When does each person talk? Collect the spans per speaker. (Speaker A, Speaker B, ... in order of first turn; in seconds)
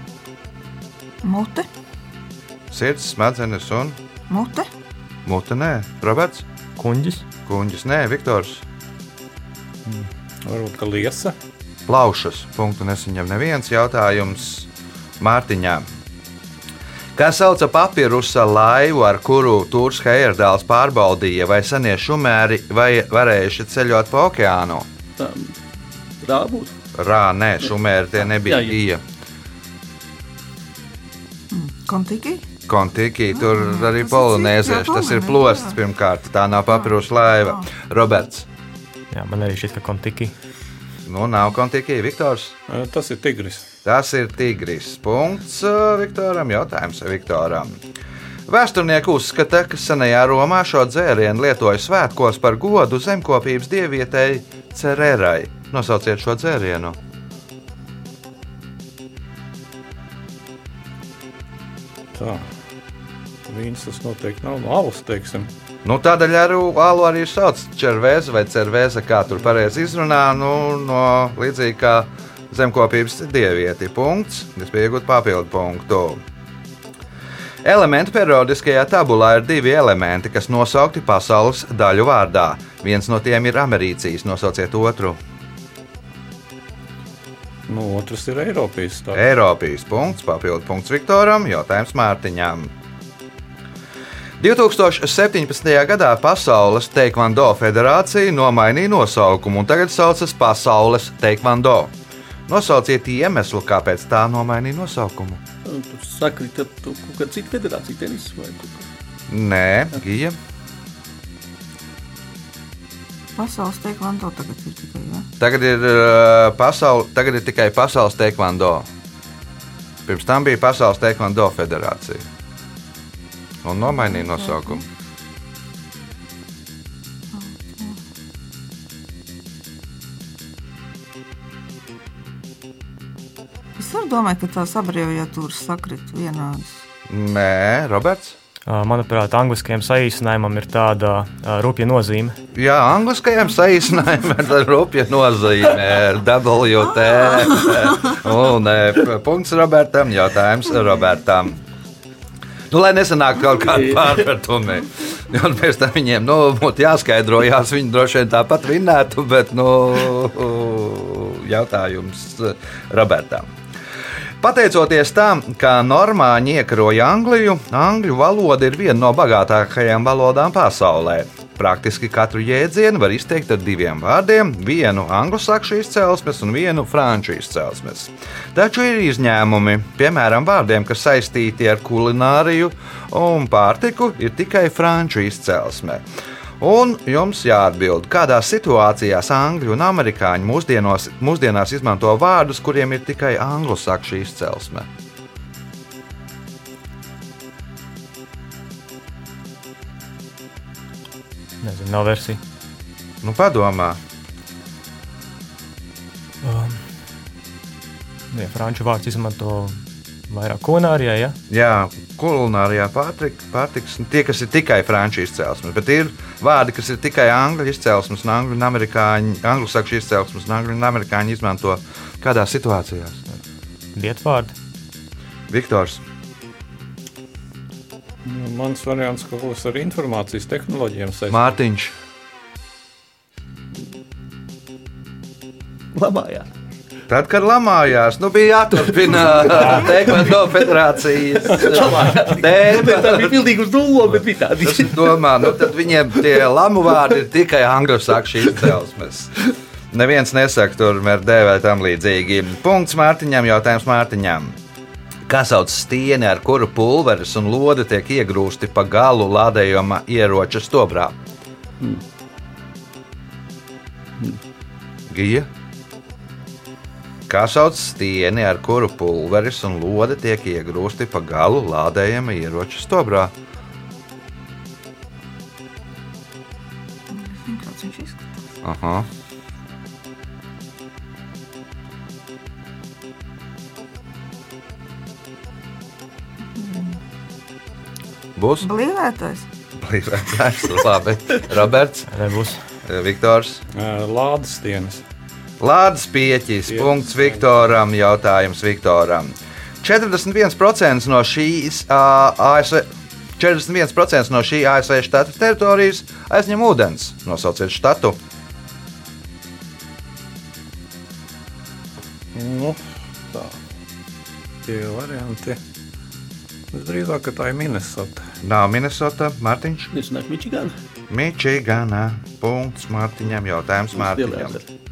Speaker A: 1.2-1.7, 4.3-4.7, 31.5-32.5, 33.3-35.8, 113.4-115.3, 123.9-124.8, 127.3-128.0, 133.8-136.8, 277.1-278.5, 286.5-287.0, 288.6-289.4
Speaker B: 2.7-4.0, 5.2-6.4, 7.5-8.6, 11.9-14.7, 15.2-15.8, 17.1-24.9, 26.9-29.0, 32.7-38.5, 41.0-42.5, 43.8-47.8, 48.5-57.0, 65.8-76.2, 77.6-85.2, 89.1-92.7, 94.4-101.9, 102.5-105.4, 109.3-110.4, 115.4-118.9, 120.0-122.2, 123.6-124.8, 137.1-138.3, 142.5-151.6, 152.7-163.5, 164.4-186.0, 186.6-194.9, 203.2-204.0, 211.5-223.2, 225.5-226.0, 231.3-231.9, 237.1-243.4, 244.6-249.3, 249.9-254.6, 255.3-261.2, 265.1-265.5, 267.3-273.3, 278.6-279.1, 288.4-288.7, 289.8-292.1, 292.8-293.6, 295.6-308.2, 318.4-319.9, 321.1-324.6
Speaker C: 6.8-7.2, 39.1-40.3, 138.7-142.3, 201.6-202.4, 206.4-206.8, 208.3-211.4, 223.9-224.5, 292.1-292.6
Speaker D: 9.8-11.3, 42.7-43.7, 62.1-62.5, 63.5-65.5, 87.7-89.2, 228.2-231.5, 293.7-295.0, 296.7-297.4, 312.3-313.6, 314.6-315.6, 316.7-318.3
Speaker E: 25.2-25.6, 26.2-26.7, 28.4-28.7, 105.6-108.9, 153.7-154.2, 235.9-236.5, 241.4-245.6, 319.9-320.7, 323.9-324.7